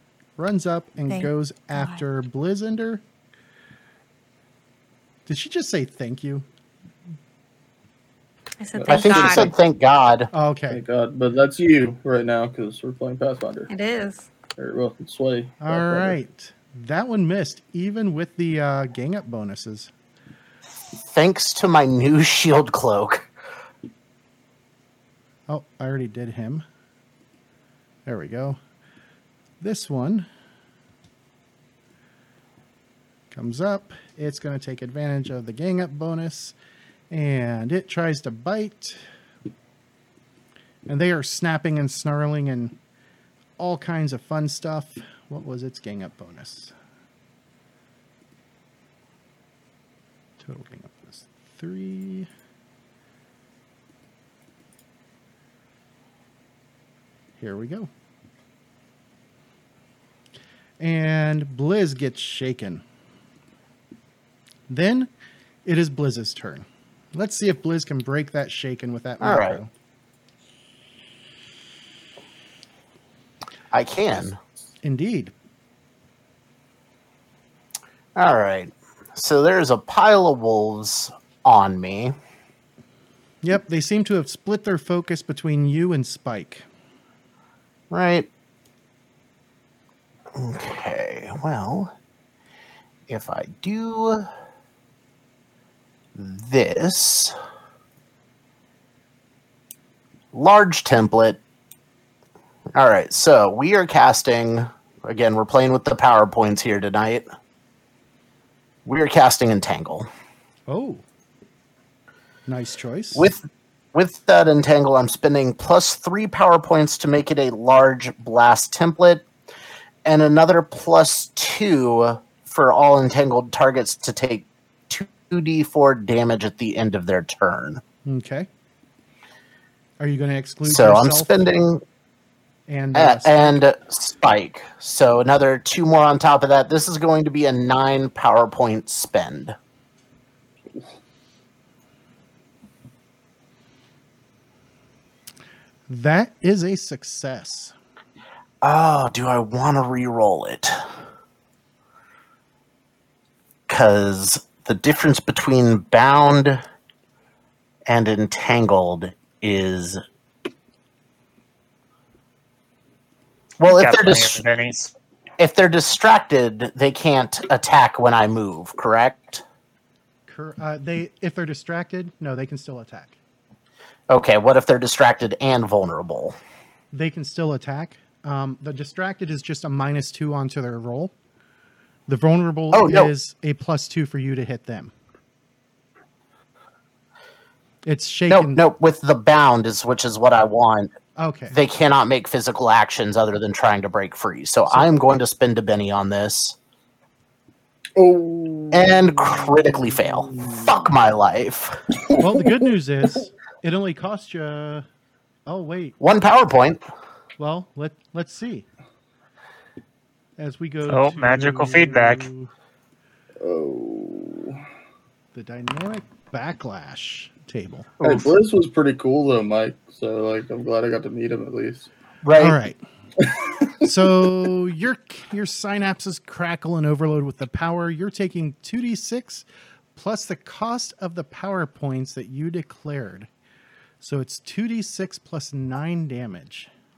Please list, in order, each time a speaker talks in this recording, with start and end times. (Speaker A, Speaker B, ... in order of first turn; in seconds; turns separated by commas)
Speaker A: 0.4-3.0, Speaker B: 1.1-2.0, Speaker A: 5.3-6.4, Speaker B: 8.6-9.5, Speaker C: 8.7-9.5, Speaker D: 8.9-10.3, Speaker A: 10.3-10.8, Speaker C: 10.7-13.7, Speaker B: 13.7-14.3, Speaker C: 14.6-16.2, Speaker A: 15.6-19.9, Speaker D: 21.1-23.3, Speaker A: 25.5-26.6, Speaker A: 28.1-28.6, Speaker A: 29.6-30.3, Speaker A: 33.3-36.5, Speaker A: 37.1-39.0, Speaker A: 40.9-42.7, Speaker A: 43.6-46.7, Speaker A: 50.4-52.3, Speaker A: 57.4-57.9, Speaker A: 60.8-62.8, Speaker A: 64.7-65.1, Speaker A: 65.6-69.7, Speaker D: 69.2-69.6, Speaker D: 73.7-74.4, Speaker A: 74.8-75.3, Speaker D: 78.2-82.1, Speaker A: 83.4-86.6, Speaker D: 87.9-88.3, Speaker D: 90.3-91.9, Speaker D: 93.1-94.3, Speaker D: 96.1-97.3, Speaker D: 100.3-101.4, Speaker D: 102.7-107.2, Speaker D: 108.8-110.1, Speaker A: 110.7-111.0, Speaker A: 112.5-113.3, Speaker D: 113.1-113.4, Speaker D: 113.9-119.2, Speaker D: 120.0-127.8, Speaker A: 128.1-128.5, Speaker A: 130.0-131.4, Speaker D: 130.6-131.8, Speaker A: 132.7-133.6, Speaker D: 132.9-139.6, Speaker A: 145.9-147.7, Speaker D: 148.6-150.8, Speaker D: 153.7-156.6, Speaker D: 157.9-160.0, Speaker D: 163.6-164.4, Speaker E: 163.7-164.9, Speaker D: 165.4-169.4, Speaker A: 170.3-173.2, Speaker D: 174.1-176.3, Speaker A: 176.9-181.1, Speaker A: 182.1-184.9, Speaker D: 182.7-183.1, Speaker A: 187.8-188.6, Speaker D: 188.3-190.9, Speaker A: 191.2-191.6, Speaker D: 191.5-196.5, Speaker C: 197.9-200.7, Speaker D: 198.7-201.8, Speaker C: 202.0-202.6, Speaker A: 202.2-204.8, Speaker A: 205.5-206.0, Speaker D: 206.0-206.8, Speaker A: 207.4-208.7, Speaker A: 210.4-212.5, Speaker E: 210.9-212.3, Speaker C: 213.4-214.6, Speaker A: 215.3-217.9, Speaker C: 218.0-221.9, Speaker D: 222.2-222.6, Speaker A: 222.4-222.8, Speaker C: 223.2-223.9, Speaker A: 223.8-233.3, Speaker A: 234.0-236.7